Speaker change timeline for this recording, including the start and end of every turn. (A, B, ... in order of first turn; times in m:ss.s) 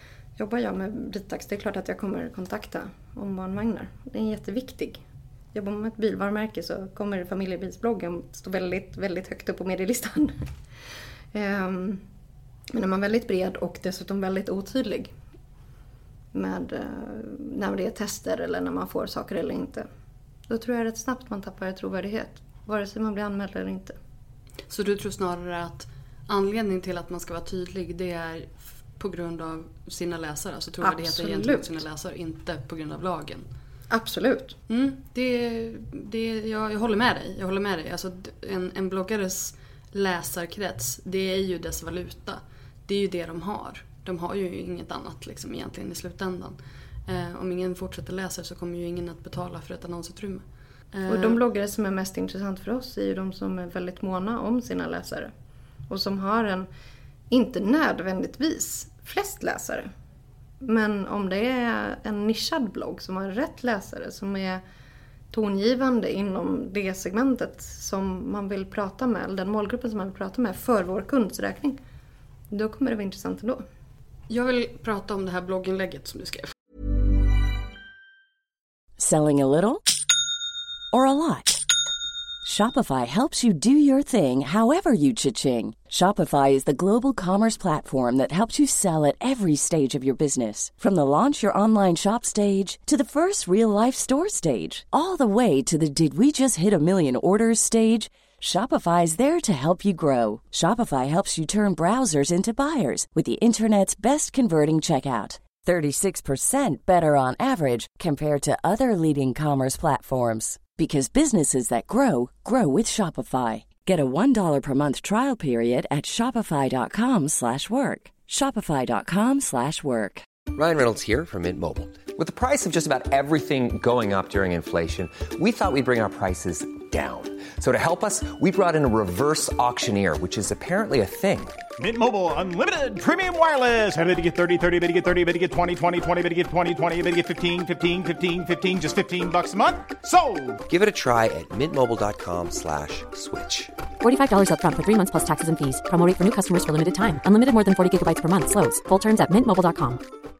0:00.4-0:05.0 A
0:05.5-0:10.3 A
0:11.3-0:12.0 A
0:12.7-0:15.1 A
0:16.3-0:19.8 A
0:20.5-0:24.0 A
0:24.7-0:33.4 B
0:30.8-0:31.8 A
0:33.9-0:34.6 A
0:34.7-0:51.4 B
0:51.1-0:55.3 A
0:55.9-0:56.7 A
0:57.3-0:59.9 A
1:00.6-1:04.6 A
1:05.3-1:11.8 A
1:12.5-1:13.6 A
1:14.3-1:16.5 B
1:19.0-1:19.8 C
1:20.9-1:21.6 C
1:22.4-2:00.2 C
2:00.5-2:11.6 D
2:11.8-2:20.6 E
2:20.7-2:23.7 D
2:24.0-2:30.0 F